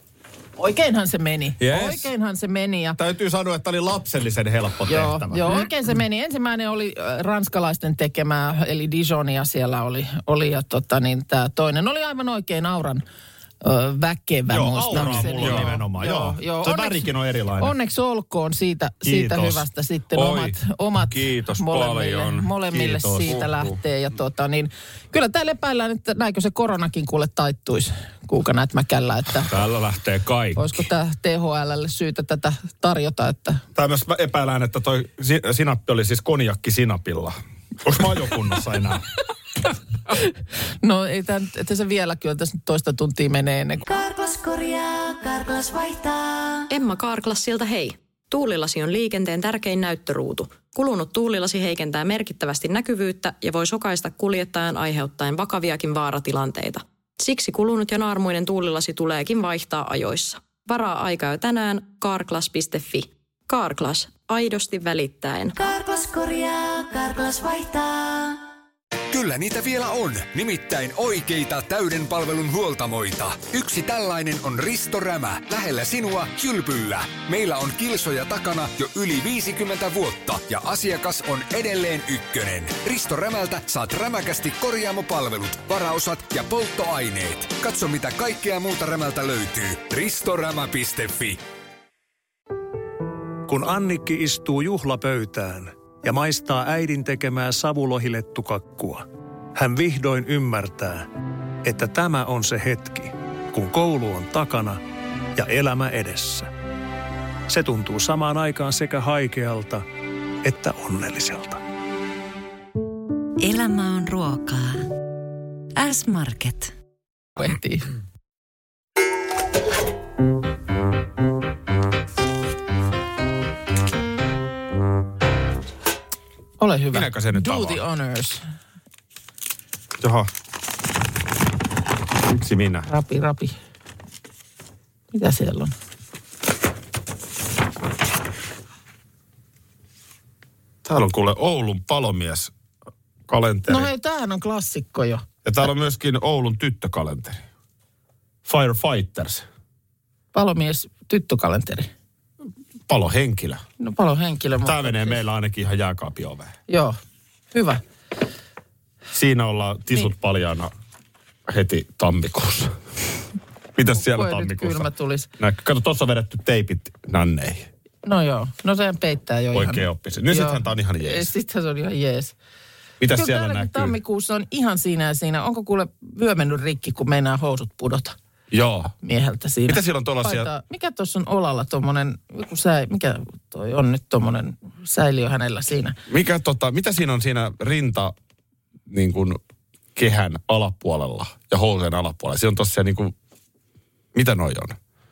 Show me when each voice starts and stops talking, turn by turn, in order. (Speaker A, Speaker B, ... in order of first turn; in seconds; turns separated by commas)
Speaker A: 0.6-3.0, Speaker B: 1.6-2.1, Speaker C: 3.0-5.5, Speaker A: 4.9-13.0, Speaker A: 13.6-17.0, Speaker C: 14.5-17.7, Speaker B: 15.1-15.7, Speaker A: 17.6-29.5, Speaker C: 19.0-19.6, Speaker B: 20.1-20.6, Speaker B: 21.1-22.5, Speaker C: 22.7-23.4, Speaker B: 23.2-23.7, Speaker B: 29.4-30.8, Speaker A: 30.6-33.6, Speaker C: 33.7-39.0, Speaker A: 40.1-43.8, Speaker D: 43.9-46.7, Speaker E: 46.7-65.6, Speaker D: 65.6-68.4, Speaker F: 69.1-91.4, Speaker G: 93.5-101.1, Speaker G: 101.6-104.8, Speaker G: 105.3-106.5, Speaker G: 107.5-109.8, Speaker G: 110.4-111.6, Speaker H: 113.4-114.8, Speaker H: 115.8-116.7, Speaker A: 117.4-117.9, Speaker A: 126.6-128.4, Speaker C: 126.9-127.8, Speaker C: 130.0-130.3, Speaker C: 132.3-132.9, Speaker A: 132.9-133.5, Speaker A: 135.1-135.7, Speaker C: 140.8-142.5, Speaker C: 143.3-143.9, Speaker A: 143.7-145.2, Speaker C: 145.4-147.4, Speaker C: 148.4-149.4, Speaker A: 150.3-151.9, Speaker C: 152.9-153.6, Speaker A: 153.8-155.2, Speaker C: 154.6-156.5, Speaker A: 156.7-157.0, Speaker A: 157.5-157.8, Speaker C: 159.1-160.7, Speaker C: 161.5-162.8, Speaker C: 163.7-167.7, Speaker A: 163.9-165.3, Speaker A: 168.0-172.3, Speaker C: 169.5-171.3, Speaker C: 173.0-173.9, Speaker A: 173.1-178.2, Speaker C: 178.5-178.9, Speaker A: 179.0-186.0, Speaker C: 179.7-180.5, Speaker C: 186.1-188.1, Speaker C: 188.9-189.4, Speaker C: 189.9-193.1, Speaker C: 194.1-194.8